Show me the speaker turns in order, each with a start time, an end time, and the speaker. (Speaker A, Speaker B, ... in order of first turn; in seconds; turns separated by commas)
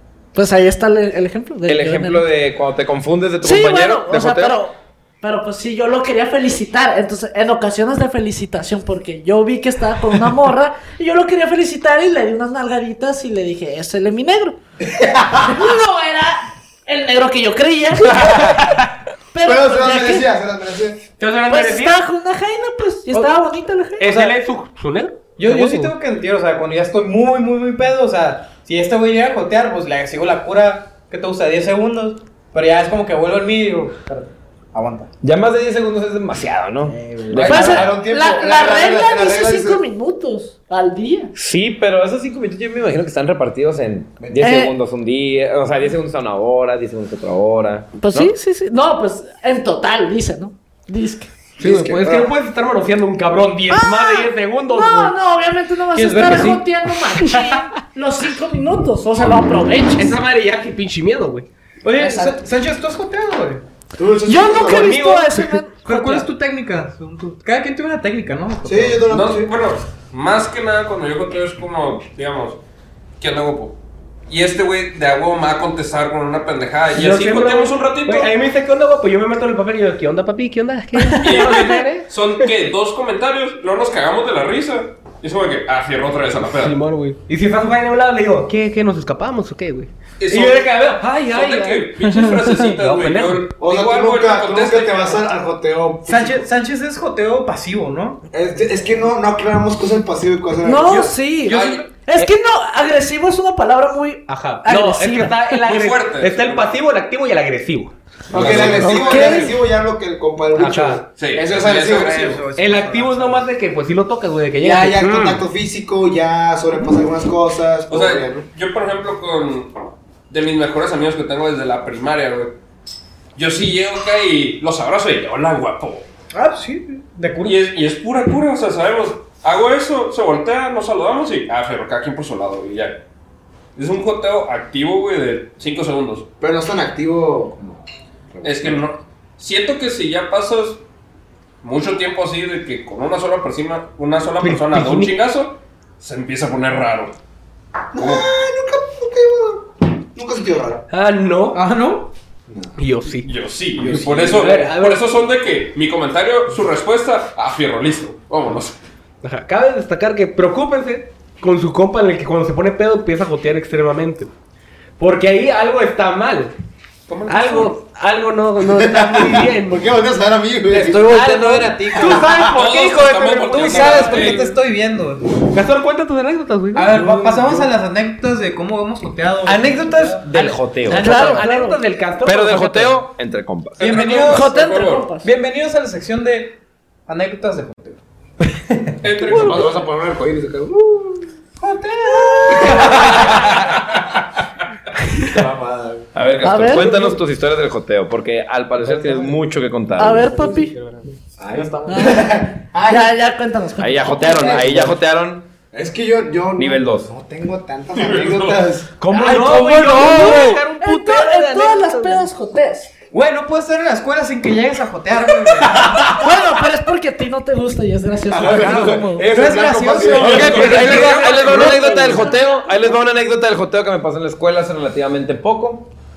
Speaker A: 0.3-2.3, Speaker B: 1.7-4.6, Speaker A: 3.4-14.6, Speaker C: 14.9-15.7, Speaker A: 15.4-18.5, Speaker A: 19.3-20.3, Speaker C: 19.4-21.0, Speaker D: 21.2-22.0, Speaker A: 21.5-24.1, Speaker D: 24.0-25.9, Speaker E: 24.0-24.4, Speaker E: 25.4-35.1, Speaker B: 35.2-38.0, Speaker E: 36.8-37.7, Speaker C: 37.3-39.8, Speaker A: 37.4-41.3, Speaker B: 41.3-48.3, Speaker C: 44.2-44.5, Speaker A: 44.4-44.7, Speaker A: 48.0-51.3, Speaker D: 51.6-55.1, Speaker C: 51.6-52.2, Speaker A: 53.7-60.2, Speaker E: 55.9-56.6, Speaker D: 57.2-57.6, Speaker D: 60.0-61.5, Speaker E: 61.8-63.6, Speaker A: 62.0-62.4, Speaker C: 64.0-65.0, Speaker A: 64.3-66.3, Speaker D: 64.5-66.2, Speaker E: 65.7-69.0, Speaker C: 68.6-69.5, Speaker F: 69.1-72.6, Speaker F: 73.2-78.3, Speaker D: 76.9-82.1, Speaker A: 80.9-81.8, Speaker F: 81.2-86.8, Speaker D: 86.5-93.5, Speaker F: 90.2-95.2, Speaker C: 93.6-96.5, Speaker E: 96.0-98.2, Speaker C: 98.3-101.2, Speaker A: 100.6-105.5, Speaker F: 101.4-101.9, Speaker D: 101.7-102.3, Speaker D: 104.3-107.9, Speaker F: 105.6-106.7, Speaker C: 108.3-112.4, Speaker F: 108.3-109.2, Speaker E: 108.5-109.4, Speaker A: 108.8-109.5, Speaker D: 109.2-109.4, Speaker D: 110.5-111.0, Speaker F: 111.2-112.5, Speaker E: 111.3-113.5, Speaker D: 112.5-115.4, Speaker C: 114.6-118.5, Speaker F: 117.9-122.5, Speaker F: 123.3-126.0, Speaker E: 126.3-127.6, Speaker F: 127.4-133.0, Speaker F: 133.7-136.3, Speaker C: 136.4-137.8, Speaker C: 138.3-138.8, Speaker F: 138.4-140.8, Speaker F: 141.6-147.2, Speaker E: 144.4-144.7, Speaker D: 144.7-145.1, Speaker C: 147.9-150.8, Speaker F: 147.9-148.3, Speaker D: 150.9-151.6, Speaker E: 151.5-152.1, Speaker D: 152.8-153.3, Speaker F: 153.2-158.8, Speaker E: 153.8-154.4, Speaker D: 154.2-155.1, Speaker D: 159.2-164.3, Speaker D: 165.0-166.5, Speaker F: 167.1-167.7, Speaker D: 167.3-169.8, Speaker C: 168.7-171.2, Speaker E: 170.7-172.5, Speaker D: 171.0-174.4, Speaker C: 171.9-172.4, Speaker F: 172.4-174.6, Speaker E: 173.5-175.4, Speaker D: 175.5-177.6, Speaker E: 176.7-180.2, Speaker B: 179.4-181.4, Speaker D: 180.2-183.1, Speaker A: 180.9-181.8, Speaker B: 182.2-184.1, Speaker E: 183.8-184.5, Speaker F: 183.8-185.1, Speaker A: 184.1-185.3, Speaker E: 185.2-188.0, Speaker F: 189.0-189.8, Speaker C: 189.2-191.2, Speaker E: 191.6-193.3, Speaker C: 192.6-193.3, Speaker B: 193.1-193.5, Speaker C: 195.2-196.1, Speaker B: 196.1-200.4, Speaker A: 196.4-197.2, Speaker A: 200.0-200.7, Speaker D: 200.2-201.0, Speaker C: 201.4-203.1, Speaker A: 201.9-204.6, Speaker B: 203.8-205.5, Speaker C: 204.0-204.9, Speaker C: 205.7-209.0, Speaker B: 206.6-207.1, Speaker F: 207.9-208.6, Speaker D: 209.0-212.2, Speaker B: 209.1-210.6, Speaker A: 210.0-212.9, Speaker E: 213.1-215.9, Speaker A: 216.1-219.3, Speaker C: 218.3-221.2, Speaker E: 219.3-221.0, Speaker F: 220.2-222.3, Speaker B: 220.2-225.9, Speaker A: 221.2-222.9